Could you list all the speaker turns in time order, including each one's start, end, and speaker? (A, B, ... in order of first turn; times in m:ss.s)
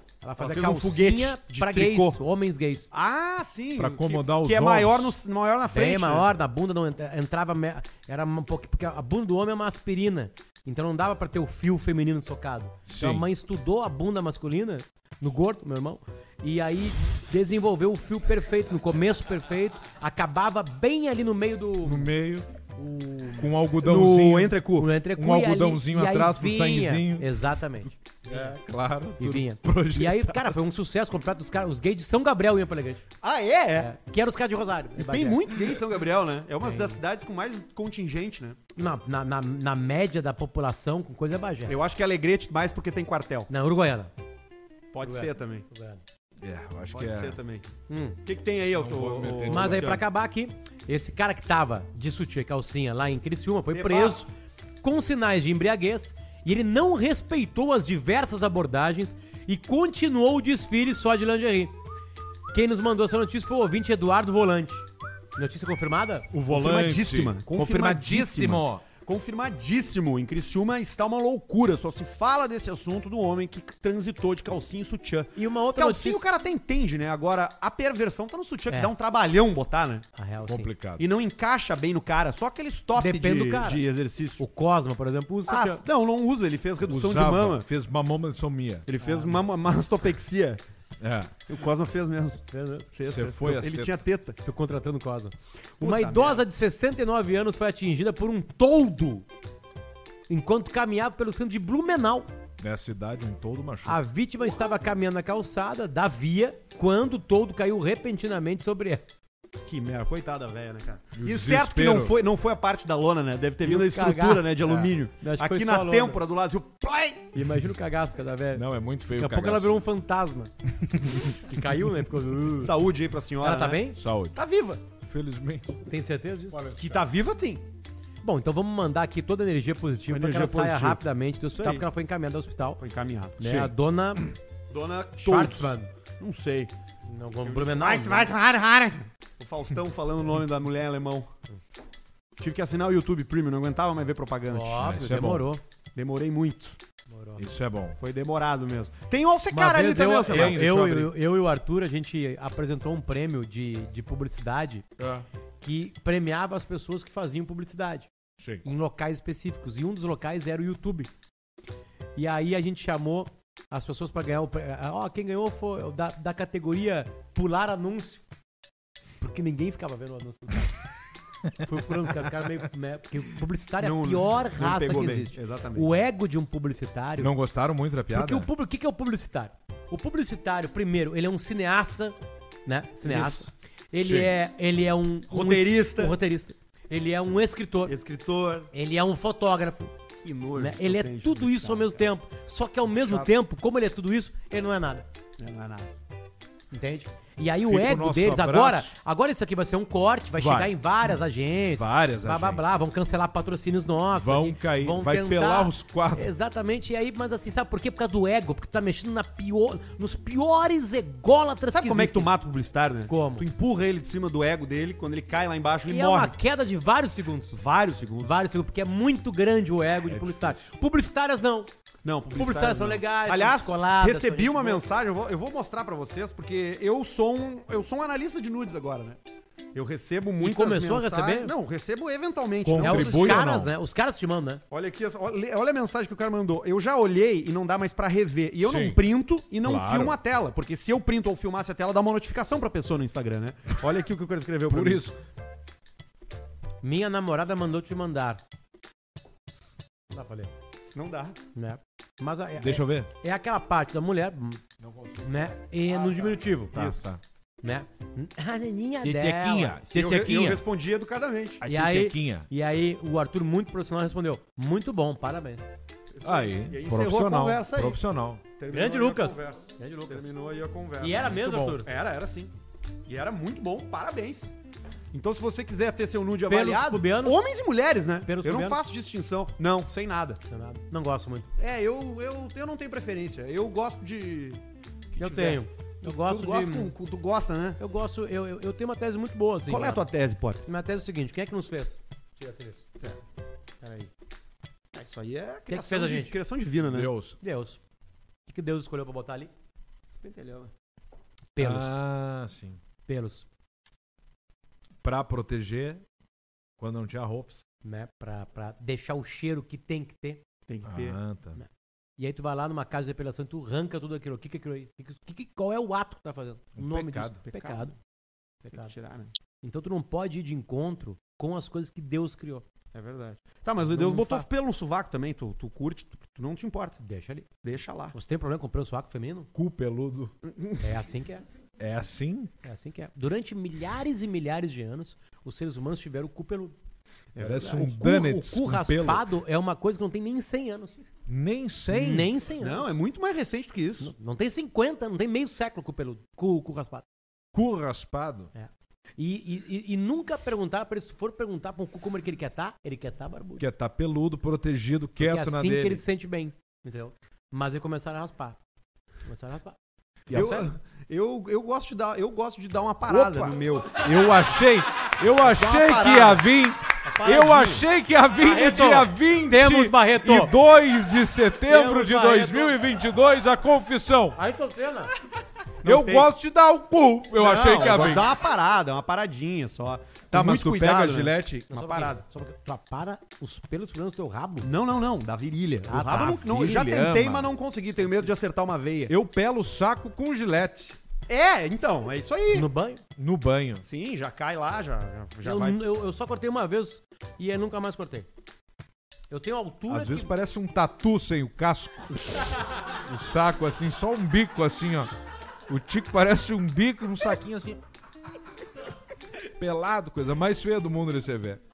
0:00.2-0:02.9 A
0:00.4-0:02.2 B
0:02.9-0:06.3 B
0:03.8-0:05.2 C
0:05.7-0:22.1 A
0:12.9-0:13.3 C
0:21.8-0:22.5 C
0:22.8-0:23.5 A
0:23.3-0:24.6 C
0:23.8-0:24.9 B
0:24.8-0:28.6 A
0:25.1-0:27.3 C
0:28.2-0:30.6 C
0:29.2-0:33.0 A
0:33.2-0:33.9 B
0:33.8-0:35.5 A
0:35.0-0:38.6 B
0:36.6-0:37.0 A
0:38.8-0:41.7 A
0:41.7-0:43.5 B
0:43.5-0:44.1 A
0:44.9-0:45.6 B
0:45.0-0:46.0 A
0:46.4-0:47.4 C
0:46.9-0:47.7 B
0:47.9-0:48.2 A
0:48.2-0:50.0 B
0:48.7-0:50.0 C
0:49.5-1:01.7 A
0:53.7-0:54.3 B
1:02.5-1:04.8 A
1:05.4-1:06.3 A
1:06.3-1:08.8 C
1:06.5-1:20.0 B
1:15.4-1:16.2 A
1:20.2-1:20.7 A
1:20.5-1:21.0 C
1:21.0-1:24.4 B
1:23.0-1:23.8 A
1:24.4-1:25.8 A
1:25.5-1:27.6 B
1:26.9-1:28.9 C
1:28.9-1:30.6 B
1:29.0-1:29.4 A
1:31.0-1:31.4 C
1:31.5-1:32.4 B
1:32.5-1:32.9 A
1:32.9-1:34.4 B
1:33.1-1:34.0 C
1:34.4-1:39.3 A
1:35.8-1:36.4 B
1:40.3-1:42.3 A
1:42.6-1:44.0 C
1:43.8-1:49.0 A
1:49.6-1:57.3 B
1:51.2-1:52.2 C
1:53.6-1:56.2 A
1:57.3-2:00.5 A
1:58.5-1:59.8 C
2:00.9-2:01.2 C
2:01.1-2:02.8 A
2:02.6-2:03.8 B
2:03.4-2:04.0 A
2:04.0-2:04.4 C
2:04.4-2:04.8 B
2:05.0-2:05.8 C
2:05.9-2:06.8 A
2:06.6-2:07.6 B
2:08.2-2:12.8 A
2:10.1-2:11.0 B
2:11.5-2:11.8 B
2:12.8-2:13.6 B
2:13.4-2:14.3 A
2:14.7-2:16.7 B
2:15.2-2:15.9 A
2:17.1-2:18.3 A
2:17.4-2:21.3 B
2:22.4-2:24.8 B
2:24.5-2:25.6 A
2:24.8-2:25.5 C
2:26.0-2:26.8 B
2:27.1-2:27.4 A
2:27.4-2:28.0 C
2:28.0-2:30.6 B
2:29.5-2:34.9 A
2:30.2-2:31.2 C
2:35.0-2:35.2 C
2:35.6-2:38.1 A
2:38.4-2:38.6 C
2:38.6-2:41.1 A
2:42.2-2:48.2 A
2:49.2-2:50.8 A
2:51.5-2:57.3 A
2:53.8-2:55.9 B
2:57.2-2:58.5 C
2:58.1-3:08.0 A
3:03.0-3:03.5 B
3:04.0-3:04.3 C
3:05.3-3:06.2 B
3:07.9-3:08.7 B
3:08.7-3:09.9 A
3:10.2-3:12.1 B
3:10.6-3:15.1 A
3:13.0-3:13.2 C
3:15.4-3:15.9 B
3:16.7-3:32.3 A
3:17.6-3:19.0 C
3:20.4-3:20.7 C
3:21.7-3:22.7 C
3:24.2-3:26.3 C
3:31.7-3:36.3 B
3:33.1-3:33.5 A
3:35.9-3:37.6 A
3:37.5-3:38.4 B
3:38.2-3:41.7 A
3:40.0-3:40.6 C
3:42.0-3:49.2 B
3:42.3-3:44.8 A
3:49.7-3:53.6 B
3:50.4-3:51.5 A
3:52.6-3:53.7 C
3:52.8-3:54.6 A
3:54.7-4:05.0 B
3:58.6-3:59.0 C
3:59.6-4:00.2 C
4:04.7-4:05.2 C
4:06.8-4:08.4 A
4:10.1-4:10.5 A
4:10.9-4:11.4 B
4:11.6-4:14.6 A
4:12.6-4:13.1 C
4:14.8-4:15.5 C
4:15.2-4:16.8 A
4:16.0-4:17.0 B
4:16.7-4:17.2 C
4:17.6-4:20.1 A
4:19.0-4:20.6 C
4:19.9-4:21.6 B
4:21.6-4:22.5 C
4:21.6-4:25.7 A
4:26.1-4:28.0 B
4:26.2-4:28.4 C
4:28.6-4:32.5 B
4:28.7-4:30.3 A
4:31.0-4:31.9 A
4:33.1-4:34.5 B
4:35.1-4:40.4 B
4:36.5-4:37.4 A
4:38.2-4:38.8 A
4:40.5-4:41.5 A
4:41.6-4:44.6 B
4:45.1-4:47.8 B
4:45.2-4:46.9 A
4:47.8-4:50.0 A
4:49.7-4:50.6 B
4:50.6-4:52.0 A
4:52.4-4:53.2 B
4:53.8-4:54.1 B
4:54.9-4:57.1 B
4:55.7-4:56.4 A
4:56.8-4:57.4 C
4:57.4-4:57.8 A
4:58.5-4:59.5 A
5:00.2-5:00.7 B
5:01.5-5:02.0 A
5:01.6-5:02.8 C
5:03.1-5:03.5 A
5:05.0-5:06.0 C
5:06.8-5:07.6 C
5:07.8-5:10.4 A
5:10.7-5:11.2 B
5:10.8-5:11.6 C
5:11.6-5:17.9 A
5:16.8-5:17.4 C
5:17.5-5:17.9 B
5:18.6-5:18.9 A
5:18.7-5:19.3 B
5:19.6-5:22.6 A
5:22.9-5:27.0 B
5:23.9-5:24.5 A
5:27.0-5:27.5 A
5:27.6-5:28.2 B
5:28.1-5:29.5 A
5:29.5-5:30.3 C
5:30.5-5:30.9 B
5:30.8-5:31.4 A
5:31.8-5:32.5 C
5:32.6-5:36.8 A
5:37.4-5:37.8 B
5:37.4-5:39.3 C
5:37.6-5:41.0 A
5:41.3-5:42.3 C
5:41.9-5:42.9 A
5:42.6-5:44.1 B
5:44.0-5:47.0 A
5:47.5-5:48.5 C
5:48.5-5:53.6 A
5:53.6-5:56.0 C
5:55.2-5:58.6 A
5:59.3-5:59.8 A
6:00.3-6:00.7 C
6:00.3-6:04.0 B
6:00.3-6:00.6 A
6:03.0-6:14.4 C
6:05.4-6:06.4 B
6:07.0-6:07.8 B
6:08.4-6:10.5 A
6:11.7-6:12.8 A
6:14.4-6:15.1 A
6:15.8-6:16.3 B
6:15.8-6:18.3 C
6:17.4-6:22.2 B
6:20.3-6:21.7 C
6:21.7-6:24.7 A
6:24.6-6:29.1 B
6:25.9-6:26.4 A
6:26.1-6:27.5 C
6:29.1-6:31.0 C
6:31.3-6:32.7 B
6:32.5-6:33.0 A
6:33.2-6:33.8 C
6:33.8-6:35.8 B
6:35.4-6:38.3 A
6:39.3-6:40.3 A
6:39.9-6:45.1 C
6:45.7-6:47.8 C
6:49.4-6:51.6 C